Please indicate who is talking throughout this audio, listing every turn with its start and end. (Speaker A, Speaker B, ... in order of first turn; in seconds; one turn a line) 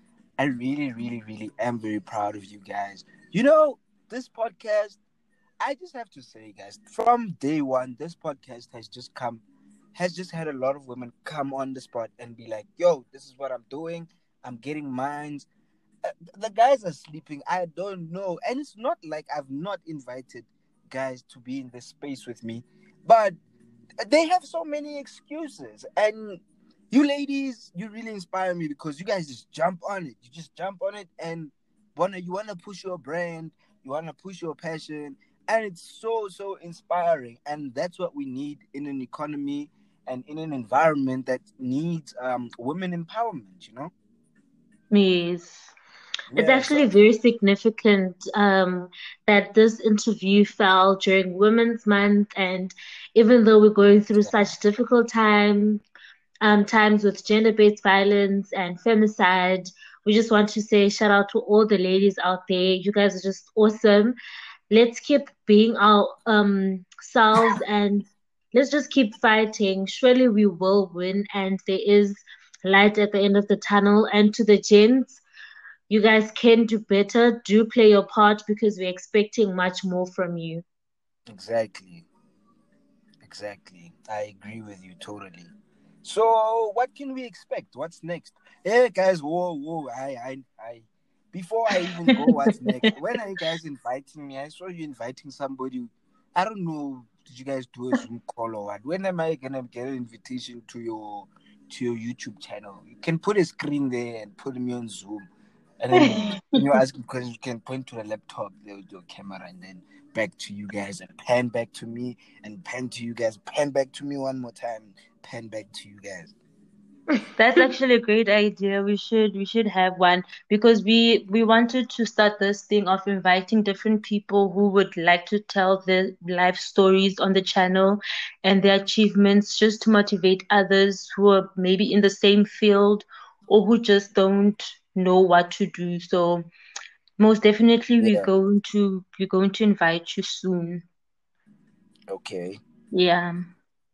Speaker A: 0.4-5.0
Speaker A: 5.6-9.4
Speaker A: 9.9-15.5
Speaker A: 16.0-23.4
Speaker A: 24.0-43.9
Speaker B: 44.9-45.7
Speaker A: 46.3-47.0
Speaker C: 46.4-55.8
Speaker A: 54.2-54.4
Speaker C: 56.4-64.2
Speaker C: 64.7-75.2
Speaker C: 75.9-80.6
Speaker A: 81.3-82.0
Speaker A: 83.2-85.5
Speaker A: 86.0-105.2
Speaker A: 105.8-116.3
Speaker B: 117.3-136.4
Speaker B: 137.2-140.8
Speaker A: 138.0-138.3
Speaker A: 142.1-142.6
Speaker B: 142.9-143.4